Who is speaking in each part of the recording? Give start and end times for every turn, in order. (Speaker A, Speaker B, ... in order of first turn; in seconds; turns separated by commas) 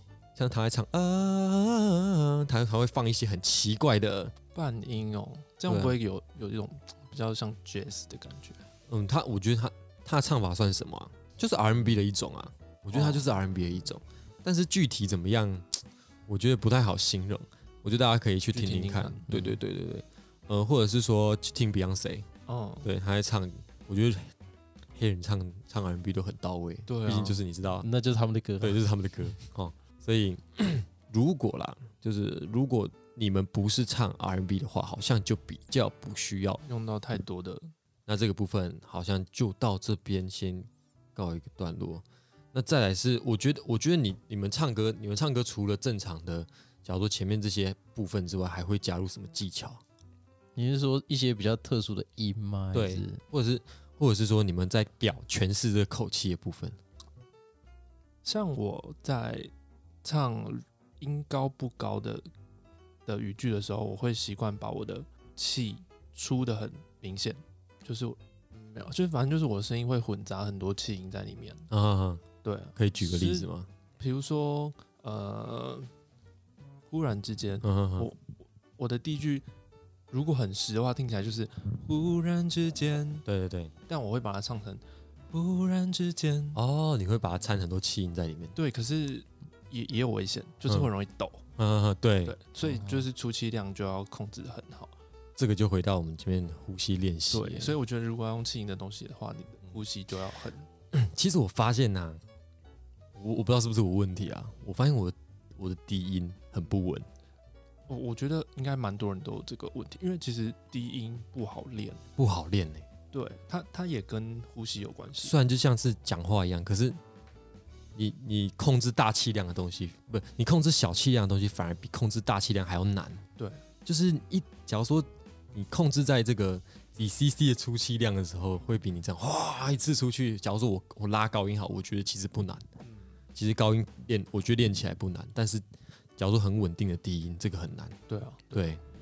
Speaker A: 0.4-4.3, Speaker B: 4.5-8.6, Speaker A: 5.7-6.0, Speaker A: 8.9-22.3, Speaker B: 12.9-13.3, Speaker B: 18.5-19.3, Speaker C: 19.3-19.6, Speaker B: 22.5-22.9, Speaker A: 22.8-24.3, Speaker A: 24.9-27.9, Speaker B: 26.9-27.4, Speaker C: 27.8-28.8, Speaker A: 28.6-36.6, Speaker B: 36.6-37.7, Speaker A: 38.1-49.8, Speaker C: 50.6-53.2, Speaker A: 52.7-56.8, Speaker B: 58.2-59.5, Speaker B: 60.0-62.3, Speaker B: 63.1-71.7, Speaker A: 71.7-72.2, Speaker B: 72.4-75.9, Speaker A: 72.8-73.7, Speaker B: 76.9-79.5, Speaker A: 77.6-78.1, Speaker B: 80.1-83.2, Speaker A: 83.3-83.7, Speaker B: 83.9-86.6, Speaker A: 86.5-88.6, Speaker B: 88.5-91.5, Speaker A: 91.6-92.4, Speaker B: 92.2-95.0, Speaker A: 95.4-97.8, Speaker B: 97.3-100.7, Speaker A: 100.9-102.2, Speaker A: 103.2-107.1, Speaker B: 107.9-112.0, Speaker A: 112.2-112.9, Speaker B: 113.1-115.3, Speaker A: 115.2-117.0, Speaker A: 118.0-123.3, Speaker A: 123.8-132.7, Speaker A: 133.3-135.6, Speaker A: 136.2-138.8, Speaker B: 138.1-138.6